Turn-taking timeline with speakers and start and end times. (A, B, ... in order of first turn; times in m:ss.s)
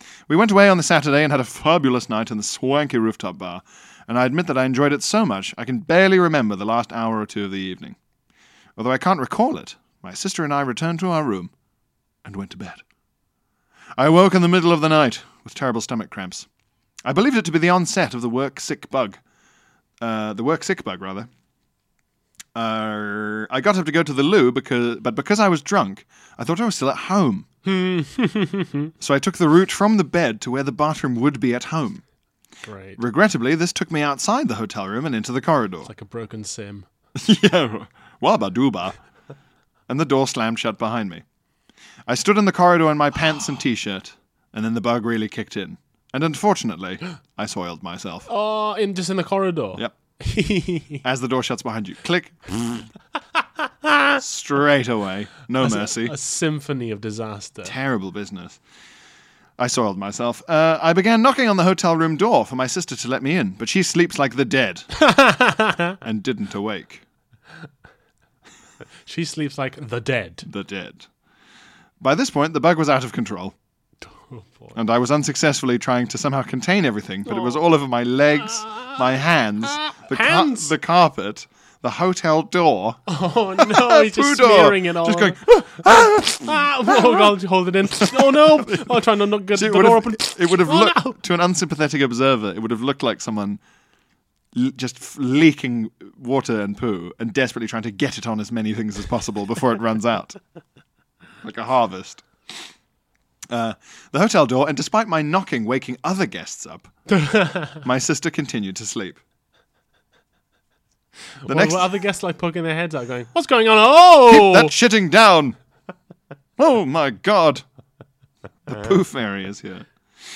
0:00.3-0:08.0 A
0:08.8-0:11.5 A
0:12.2-0:12.8 A
0:14.0-0:16.5 A
0:17.0-0:19.2 A
0:20.0-0:21.3 A
0:22.5-0:27.5 A
0:27.6-0:28.9 B
0:29.0-0:32.0 A
0:32.6-0:33.0 B
0:33.0-0:35.9 A
0:35.8-0:36.9 B
0:37.2-0:39.0 A
0:39.9-0:41.2 A
0:42.1-0:48.3 A
0:48.3-0:51.0 B
0:49.8-0:50.2 A
0:51.0-0:52.9 A
0:54.2-0:56.2 A
0:55.6-0:57.7 B
0:57.6-0:58.6 A
0:59.6-1:05.0 A
1:05.0-1:06.0 B
1:06.0-1:07.0 A
1:09.0-1:10.5 B
1:10.5-1:11.1 A
1:12.0-1:13.5 A
1:14.0-1:14.8 B
1:14.7-1:27.3 A
1:17.3-1:17.6 B
1:18.6-1:20.7 B
1:23.1-1:31.2 B
1:28.0-1:28.8 A
1:29.5-1:33.6 A
1:34.5-1:40.4 A
1:41.4-1:42.3 A
1:43.5-1:47.1 A
1:47.1-1:47.8 B
1:47.7-1:49.2 A
1:51.4-1:54.7 B
1:51.4-1:51.8 A
1:54.3-1:55.6 A
1:56.6-1:57.6 A
1:58.6-1:59.9 A